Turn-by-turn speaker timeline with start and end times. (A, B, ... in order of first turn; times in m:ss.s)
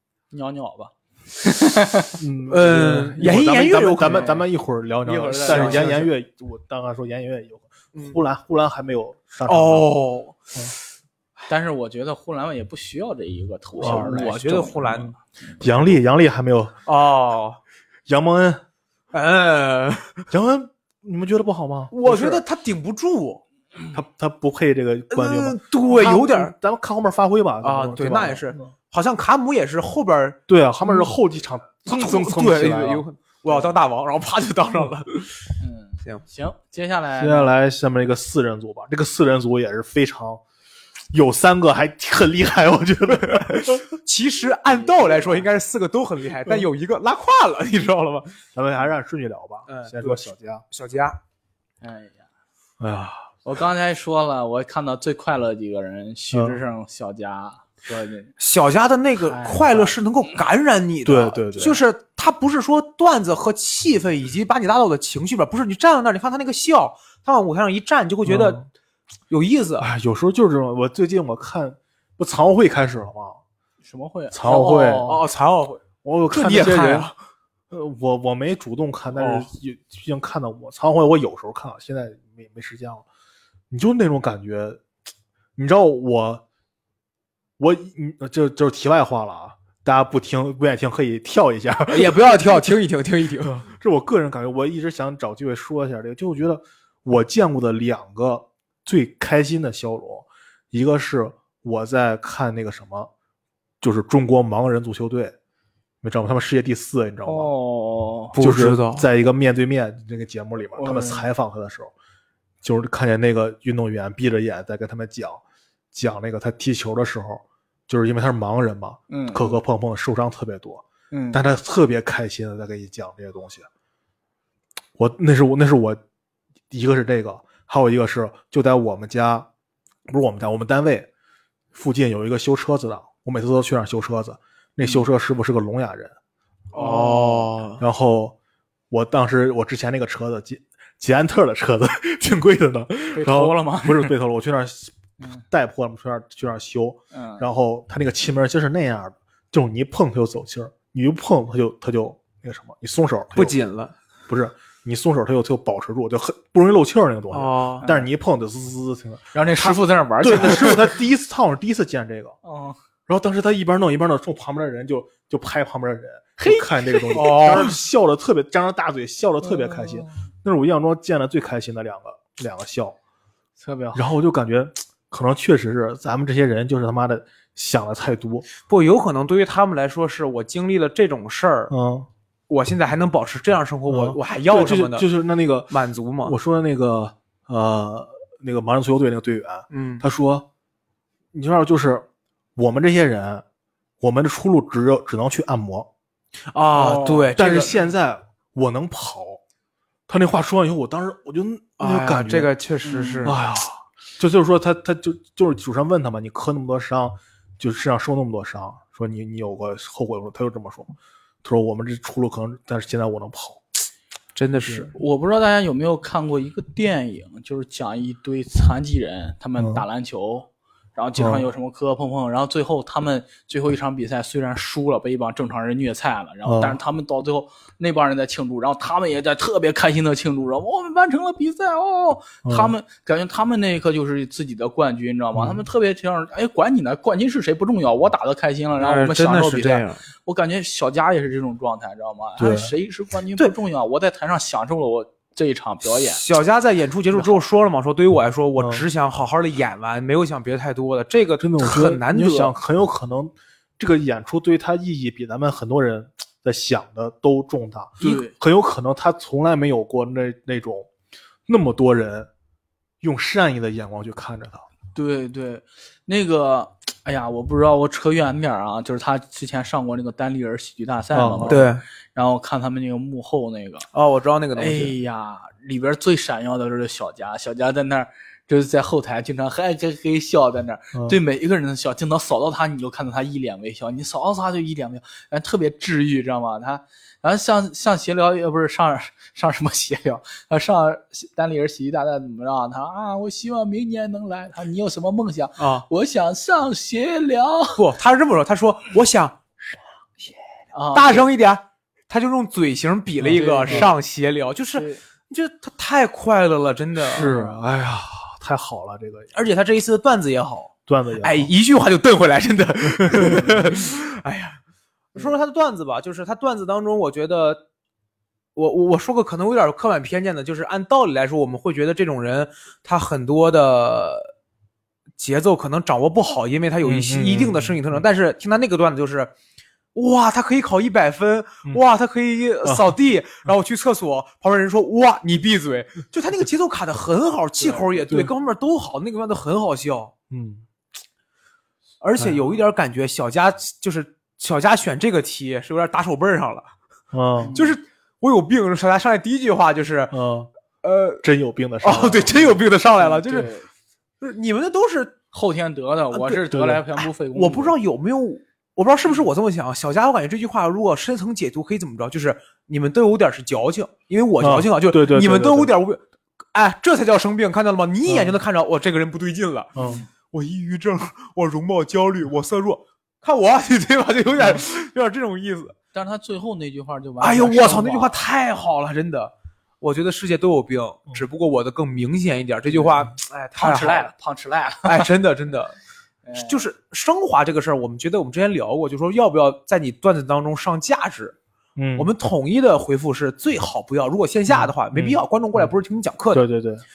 0:00.3-0:02.2 A
0:02.2-0:09.9 B
0:02.5-0:04.4 C
0:04.1-0:04.4 A
0:05.0-0:06.1 A
0:05.4-0:06.0 C
0:09.5-0:10.4 C
0:11.5-0:15.6 A
0:13.8-0:14.3 B
0:13.8-0:15.9 C
0:14.9-0:16.8 B
0:16.9-0:17.6 C
0:18.1-0:18.6 B
0:19.1-0:20.3 C
0:20.3-0:22.4 B
0:21.9-0:23.4 C
0:23.9-0:28.7 B
0:25.1-0:26.5 C
0:27.6-0:30.4 C
0:30.5-0:33.6 B
0:31.9-0:35.4 C
0:35.6-0:37.5 A
0:37.2-0:40.4 B
0:41.1-0:43.8 B
0:43.3-0:48.4 C
0:44.7-0:45.5 A
0:48.5-0:50.6 B
0:49.7-0:51.2 C
0:51.8-0:52.2 A
0:52.8-0:53.3 B
0:53.4-0:58.3 A
0:56.3-0:56.6 B
0:58.4-1:08.6 C
0:59.2-1:00.0 A
1:01.0-1:01.8 B
1:08.2-1:08.6 B
1:09.3-1:09.9 C
1:09.8-1:13.4 B
1:13.8-1:15.2 A
1:14.3-1:15.2 B
1:15.0-1:17.2 C
1:16.0-1:17.1 B
1:17.7-1:23.1 B
1:19.1-1:19.5 C
1:23.7-1:24.8 B
1:25.6-1:26.4 B
1:27.6-1:32.7 B
1:31.9-1:33.6 C
1:33.4-1:43.1 B
1:43.8-1:45.3 B
1:46.0-1:47.5 B
1:47.2-1:48.4 A
1:48.4-1:49.1 C
1:48.4-1:51.9 B
1:50.8-1:51.3 A
1:52.6-2:03.7 B
1:59.1-1:59.6 A
2:01.1-2:01.4 A
2:05.0-2:06.0 B
2:06.7-2:09.5 B
2:10.1-2:11.1 B
2:11.7-2:16.2 B
2:16.7-2:17.6 A
2:16.7-2:17.8 C
2:17.8-2:18.4 B
2:18.9-2:25.0 B
2:23.1-2:24.1 A
2:25.5-2:33.6 B
2:27.1-2:27.5 A
2:33.4-2:34.0 C
2:34.3-2:42.4 B
2:37.3-2:37.8 C
2:37.8-2:38.1 A
2:39.3-2:40.9 A
2:42.4-2:42.8 A
2:43.1-2:53.0 B
2:46.4-2:47.7 A
2:47.2-2:47.7 C
2:49.4-2:50.3 A
2:53.6-2:54.1 A
2:53.9-2:58.5 B
2:58.7-3:01.7 C
3:01.7-3:02.1 B
3:02.5-3:05.1 C
3:03.9-3:05.7 B
3:05.7-3:06.4 C
3:06.2-3:10.4 B
3:09.7-3:10.0 C
3:11.3-3:13.4 B
3:14.0-3:15.9 B
3:16.5-3:17.7 C
3:16.7-3:17.4 A
3:17.4-3:19.4 B
3:20.1-3:22.5 B
3:21.8-3:23.4 C
3:22.8-3:23.3 A
3:23.2-3:33.6 B
3:34.4-3:34.9 C
3:34.9-4:06.2 A
3:39.6-3:39.8 B
3:41.2-3:41.5 B
3:46.4-3:46.8 B
3:52.4-3:52.7 B
3:55.4-3:55.7 B
3:58.8-4:00.0 C
4:02.4-4:02.7 B
4:05.8-4:12.5 C
4:07.1-4:07.4 A
4:08.6-4:08.8 B
4:11.4-4:20.9 B
4:18.0-4:18.3 A
4:21.5-4:22.3 B
4:23.0-4:24.7 B
4:24.9-4:33.9 A
4:31.1-4:31.6 B
4:31.5-4:31.8 C
4:33.9-4:34.9 C
4:34.6-4:57.8 A
4:55.6-4:55.9 C
4:57.8-4:59.4 C
5:00.7-5:01.3 A
5:00.9-5:07.4 C
5:03.2-5:03.9 A
5:04.7-5:05.0 A
5:07.0-5:09.3 B
5:09.3-5:14.6 C
5:10.9-5:11.5 B
5:13.0-5:13.6 B
5:15.1-5:17.6 C
5:18.6-5:24.3 C
5:25.2-5:29.3 C
5:26.8-5:28.0 B
5:30.0-5:40.1 C
5:37.6-5:37.9 A
5:40.3-5:40.6 B
5:42.0-5:46.7 C
5:42.2-5:42.5 B
5:47.1-5:47.6 B
5:47.4-5:47.8 A
5:47.6-5:50.2 C
5:50.1-5:50.5 B
5:50.8-5:51.2 C
5:51.2-5:52.6 B
5:51.8-5:53.5 C
5:53.0-5:53.7 A
5:54.2-5:55.2 C
5:55.3-5:57.8 A
5:56.1-6:06.0 C
5:56.5-5:56.8 B
6:04.4-6:05.7 B
6:06.5-6:09.8 C
6:08.1-6:08.4 B
6:09.8-6:10.0 B
6:09.8-6:10.1 A
6:10.3-6:15.8 C
6:15.9-6:18.2 A
6:17.2-6:24.1 C
6:22.7-6:23.0 A
6:23.6-6:25.1 A
6:24.8-6:25.8 C
6:26.2-6:26.7 A
6:26.3-6:31.4 C
6:31.8-6:32.1 B
6:32.0-6:36.4 C
6:34.5-6:35.7 B
6:36.3-6:36.8 B